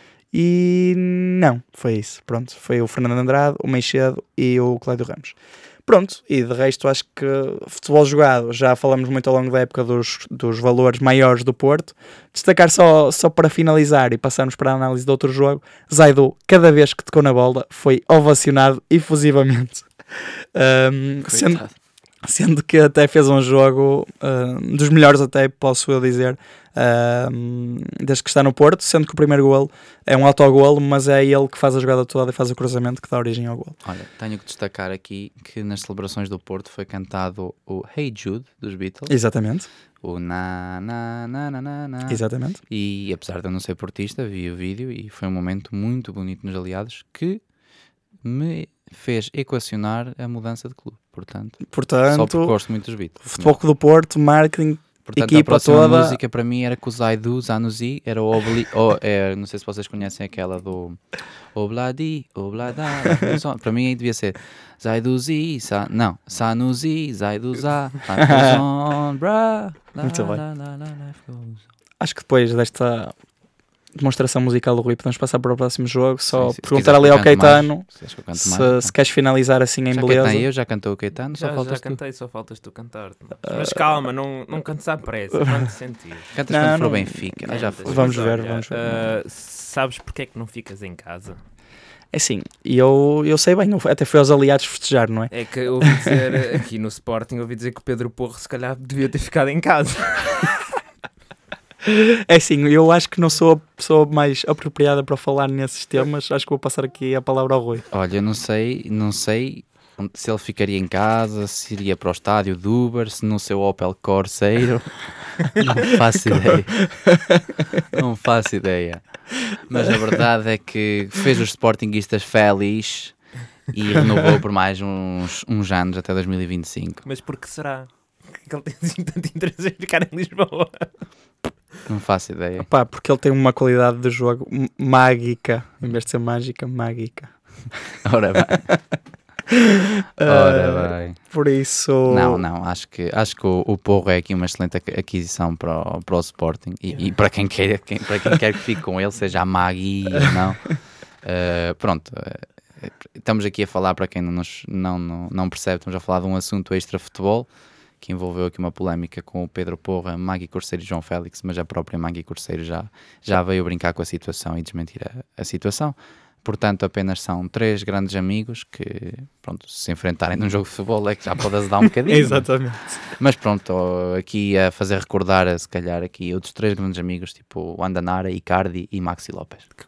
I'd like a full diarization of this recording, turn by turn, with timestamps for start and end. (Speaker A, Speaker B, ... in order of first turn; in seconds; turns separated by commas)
Speaker A: 0.3-5.3, Speaker A: 5.8-19.9, Speaker A: 20.5-21.6, Speaker B: 21.3-21.7, Speaker A: 22.2-33.8, Speaker B: 33.8-39.1, Speaker A: 39.1-39.7, Speaker B: 40.0-47.4, Speaker A: 42.1-42.6, Speaker B: 48.2-53.6, Speaker A: 51.7-52.5, Speaker A: 53.2-56.2, Speaker B: 55.0-61.0, Speaker B: 61.5-71.6, Speaker A: 68.2-68.6, Speaker A: 70.0-70.4, Speaker A: 72.0-73.1, Speaker A: 73.9-80.4, Speaker B: 76.3-78.9, Speaker B: 79.9-82.0, Speaker C: 81.3-86.3, Speaker A: 83.5-83.7, Speaker B: 86.3-88.2, Speaker A: 86.5-89.1, Speaker C: 87.5-91.4, Speaker A: 92.1-96.2, Speaker C: 95.3-100.6, Speaker A: 101.8-107.8, Speaker B: 107.9-116.9, Speaker A: 116.8-117.4, Speaker B: 117.8-119.0, Speaker B: 119.5-123.1, Speaker B: 123.7-127.0, Speaker C: 127.0-130.9, Speaker B: 131.9-132.7, Speaker A: 132.6-137.3, Speaker B: 138.0-138.7, Speaker A: 139.5-142.4, Speaker B: 140.2-141.2, Speaker B: 142.1-157.5, Speaker B: 158.0-172.5, Speaker A: 172.1-172.9, Speaker B: 173.2-179.7